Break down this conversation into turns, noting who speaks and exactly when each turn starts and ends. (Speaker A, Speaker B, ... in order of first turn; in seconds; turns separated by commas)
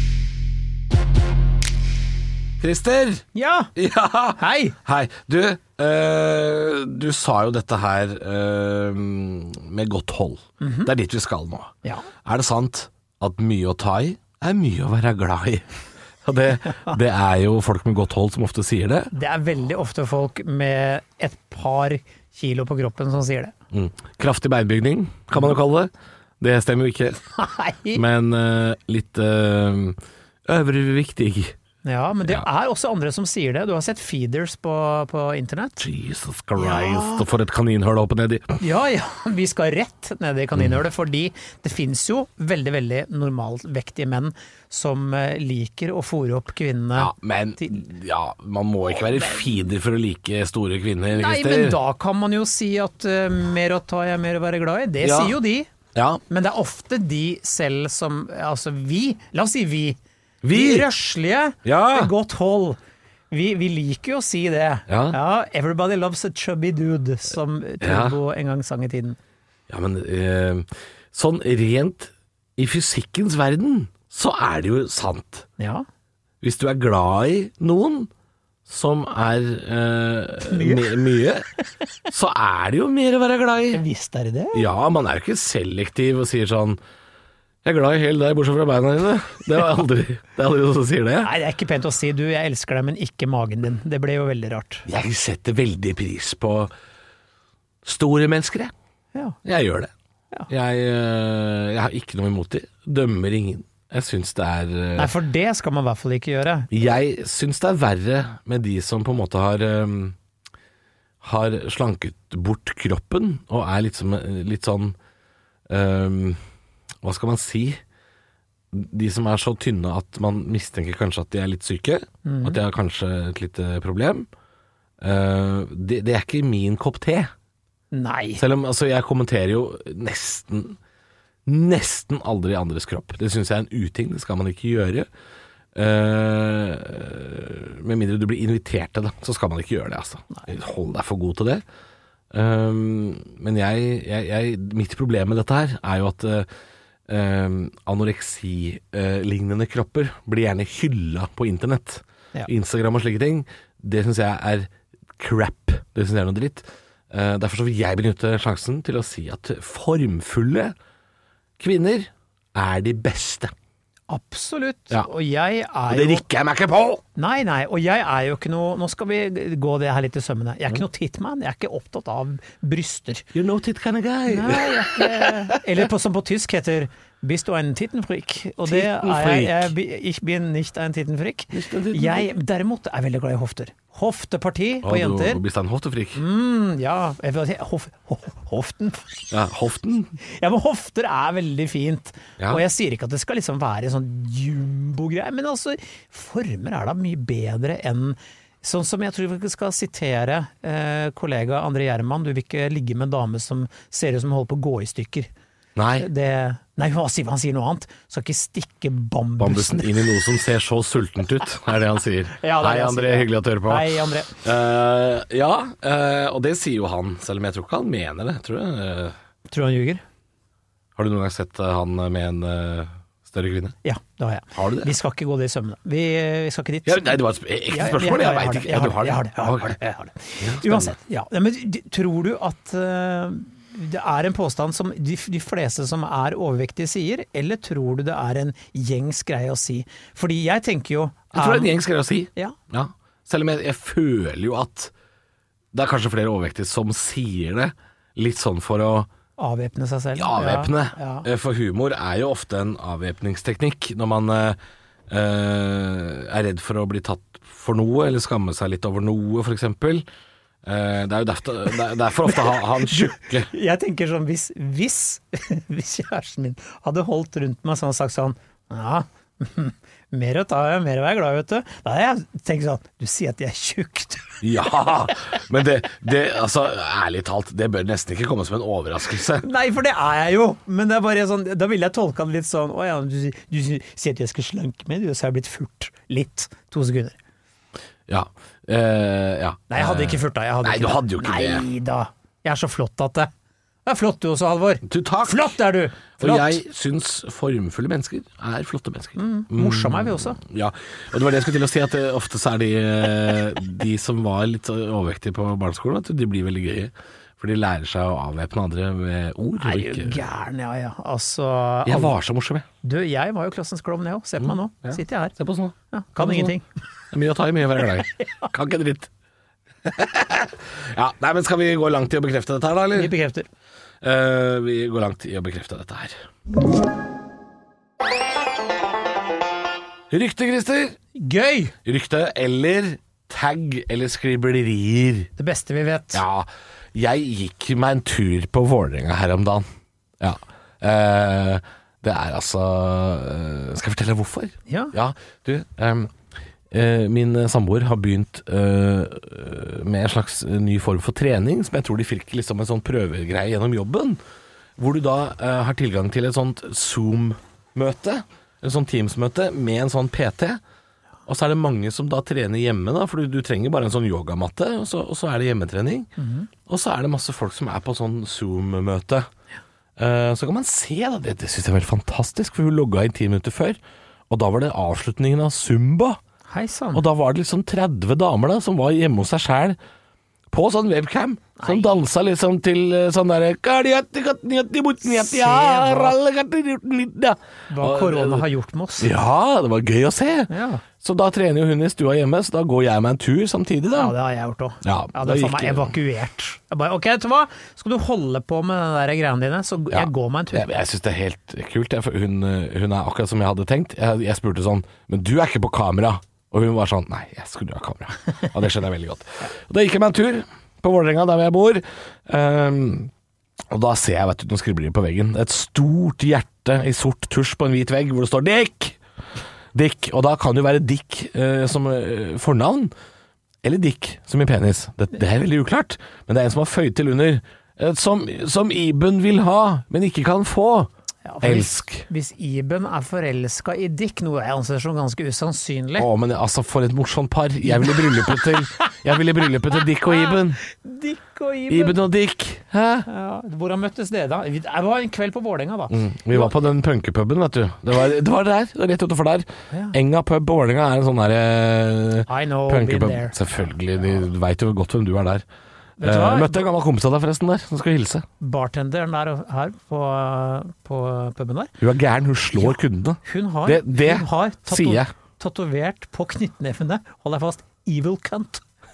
Speaker A: 2.6-15.7, Speaker B: 3.4-3.7, Speaker B: 4.4-4.8, Speaker B: 10.6-10.9, Speaker A: 16.2-19.1, Speaker B: 19.1-23.5, Speaker A: 23.7-27.2, Speaker B: 27.4-28.0, Speaker A: 27.9-31.6, Speaker B: 31.8-35.8, Speaker A: 35.8-38.6, Speaker B: 36.6-37.3, Speaker B: 38.6-47.8, Speaker A: 47.0-51.8, Speaker B: 49.0-49.4, Speaker B: 51.1-55.7, Speaker A: 55.0-55.4, Speaker A: 55.9-56.2, Speaker B: 56.3-60.0, Speaker A: 60.4-60.9, Speaker B: 60.5-62.8, Speaker A: 61.6-62.1, Speaker B: 63.3-69.2, Speaker A: 64.9-65.2, Speaker A: 67.8-68.2, Speaker A: 69.7-75.5, Speaker B: 75.6-75.8, Speaker A: 76.4-78.1, Speaker A: 78.7-81.5, Speaker B: 80.5-81.1, Speaker A: 82.1-83.8, Speaker B: 83.7-84.7, Speaker A: 84.5-86.8, Speaker A: 87.6-91.3, Speaker B: 91.2-94.9, Speaker A: 94.9-96.7, Speaker A: 97.8-98.7, Speaker A: 99.5-99.9, Speaker A: 100.5-105.1, Speaker B: 105.0-106.7, Speaker A: 106.7-110.2, Speaker A: 111.2-115.0, Speaker A: 115.7-116.4, Speaker A: 117.0-117.8, Speaker A: 118.7-124.3, Speaker B: 122.2-122.6, Speaker A: 125.0-127.3, Speaker B: 127.9-128.4, Speaker A: 128.4-130.8, Speaker A: 131.5-135.1, Speaker A: 135.8-141.6, Speaker A: 142.3-146.5, Speaker A: 147.1-160.8, Speaker A: 161.6-163.5, Speaker B: 164.1-166.3, Speaker A: 165.9-167.0, Speaker B: 167.2-173.3, Speaker A: 173.3-175.6, Speaker B: 174.3-185.4, Speaker A: 178.7-179.7, Speaker A: 181.5-182.3, Speaker A: 184.8-186.2, Speaker B: 186.1-189.2, Speaker A: 189.3-190.2, Speaker B: 190.2-205.3, Speaker A: 205.8-206.1, Speaker B: 206.0-210.2, Speaker A: 209.4-219.2, Speaker B: 212.3-214.4, Speaker B: 219.5-220.0, Speaker A: 221.0-223.8, Speaker B: 223.8-227.2, Speaker A: 224.5-224.9, Speaker A: 226.8-229.8, Speaker B: 227.7-241.8, Speaker A: 230.4-231.0, Speaker A: 241.3-244.9, Speaker A: 245.7-249.1, Speaker B: 249.4-251.3, Speaker A: 250.2-254.6, Speaker A: 255.1-260.1, Speaker A: 260.6-263.5, Speaker B: 262.3-275.2, Speaker A: 274.4-279.4, Speaker B: 279.4-287.2, Speaker A: 288.1-291.6, Speaker B: 289.7-293.3, Speaker B: 293.9-296.6, Speaker A: 294.9-295.6, Speaker A: 296.2-310.2, Speaker B: 299.2-300.4, Speaker B: 309.6-312.1, Speaker A: 311.9-312.7, Speaker B: 312.8-315.4, Speaker A: 314.4-316.6, Speaker B: 315.9-316.6, Speaker A: 317.1-319.1, Speaker B: 318.2-318.5, Speaker A: 319.8-323.1, Speaker B: 322.9-323.5, Speaker A: 324.0-326.2, Speaker A: 330.1-331.0, Speaker B: 331.1-331.7, Speaker A: 331.9-335.3, Speaker B: 335.4-336.2, Speaker A: 336.1-339.6, Speaker A: 340.2-346.1, Speaker B: 344.7-344.9, Speaker A: 346.7-354.2, Speaker A: 354.8-360.6, Speaker A: 361.3-366.1, Speaker B: 366.2-366.5, Speaker A: 366.7-369.3, Speaker A: 370.0-376.2, Speaker B: 376.5-377.0, Speaker A: 376.9-379.8, Speaker A: 380.5-388.5, Speaker B: 381.6-381.9, Speaker B: 385.0-386.2, Speaker B: 387.7-389.1, Speaker A: 389.0-394.1, Speaker B: 390.5-390.8, Speaker B: 393.9-400.7, Speaker A: 394.8-395.9, Speaker A: 399.9-413.1, Speaker A: 413.7-419.0, Speaker A: 419.7-422.9, Speaker A: 423.6-430.9, Speaker B: 431.2-436.1, Speaker A: 431.4-432.1, Speaker A: 436.0-440.6, Speaker B: 437.6-438.9, Speaker B: 439.7-442.0, Speaker A: 441.7-443.1, Speaker B: 443.1-446.5, Speaker A: 445.9-455.4, Speaker B: 449.7-450.0, Speaker B: 452.3-453.4, Speaker B: 456.0-456.6, Speaker A: 456.0-458.3, Speaker B: 458.4-461.7, Speaker A: 461.8-465.1, Speaker B: 462.5-468.6